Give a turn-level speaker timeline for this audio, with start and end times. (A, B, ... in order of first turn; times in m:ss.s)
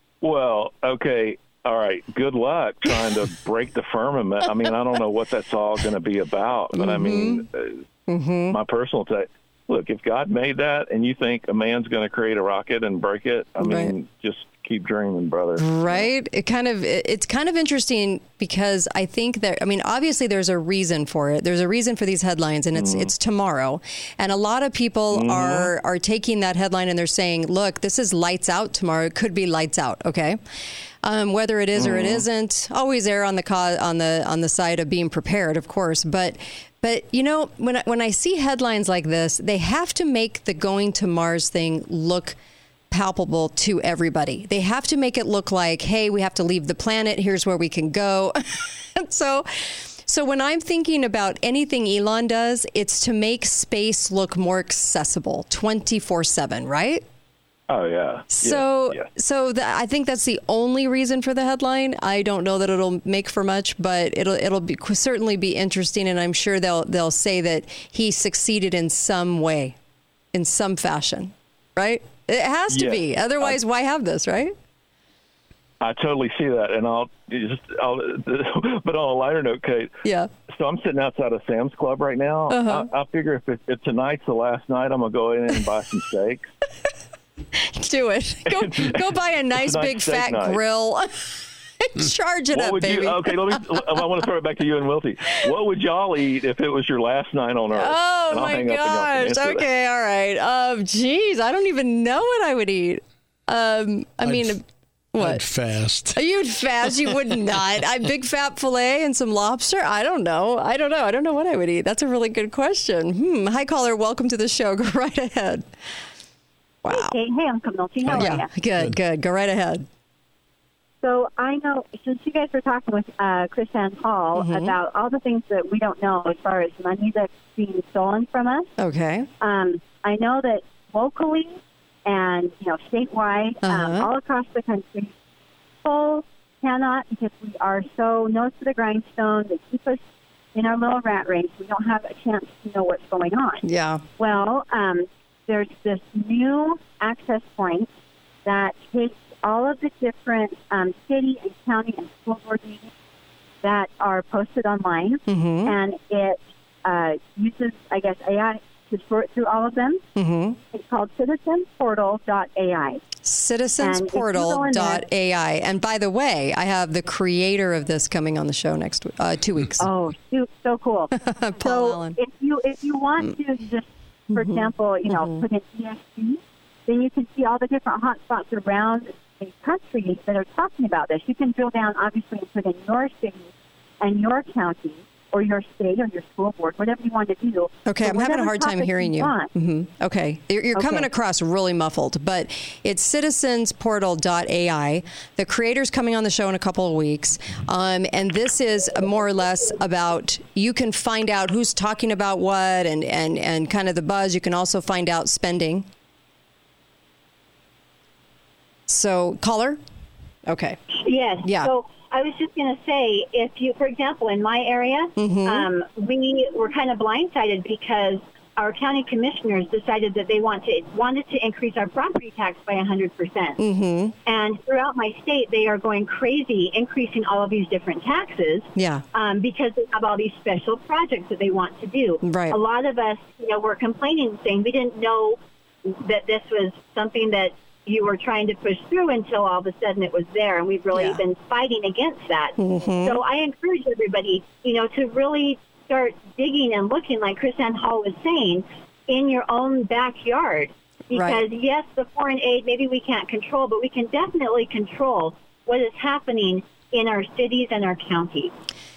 0:00.2-0:07.8 A
0:06.8-0:07.4 B
0:08.1-0:08.6 B
0:08.5-0:16.1 A
0:13.6-0:13.9 B
0:15.6-0:30.4 B
0:22.7-0:23.1 A
0:25.1-0:25.7 A
0:31.0-0:42.4 B
0:31.8-0:32.2 A
0:42.9-0:57.0 B
0:57.7-0:59.1 A
0:58.3-1:09.8 B
1:10.3-1:14.6 B
1:12.7-1:13.6 A
1:15.8-1:26.5 A
1:20.0-1:20.3 B
1:22.5-1:22.9 B
1:27.5-1:31.1 B
1:28.5-1:30.6 A
1:31.8-1:34.0 B
1:32.5-1:39.7 A
1:37.7-1:44.6 B
1:44.2-1:44.6 C
1:45.1-1:45.4 B
1:45.2-1:46.3 C
1:46.2-1:55.7 B
1:56.8-1:57.2 B
1:57.0-1:58.4 D
1:58.0-1:59.0 C
1:58.1-1:59.9 B
1:58.1-1:58.4 E
2:01.0-2:08.5 D
2:04.4-2:04.8 B
2:08.3-2:08.6 E
2:08.8-2:09.3 B
2:09.5-2:09.9 E
2:09.5-2:11.5 D
2:12.1-2:15.1 D
2:13.6-2:14.1 B
2:15.8-2:20.0 D
2:20.6-2:23.6 D
2:23.6-2:24.0 B
2:24.2-2:24.8 D
2:25.5-2:27.9 D
2:28.4-2:32.9 D
2:33.6-2:40.0 D
2:35.3-2:35.8 B
2:40.2-2:40.6 B
2:40.7-2:43.0 D
2:43.2-2:49.9 B
2:43.8-2:45.0 E
2:49.8-2:51.1 D
2:51.2-2:52.2 B
2:51.6-3:03.5 D
2:54.4-2:55.4 B
3:04.0-3:09.5 D
3:07.8-3:25.9 B
3:28.9-3:29.8 B
3:30.5-3:30.8 B
3:31.0-3:43.6 E
3:31.4-3:31.7 B
3:35.2-3:35.7 B
3:43.6-3:44.1 B
3:44.2-4:18.5 E
3:48.8-3:49.0 B
3:52.2-3:52.6 B
4:00.9-4:01.2 B
4:02.6-4:03.2 B
4:11.1-4:11.4 B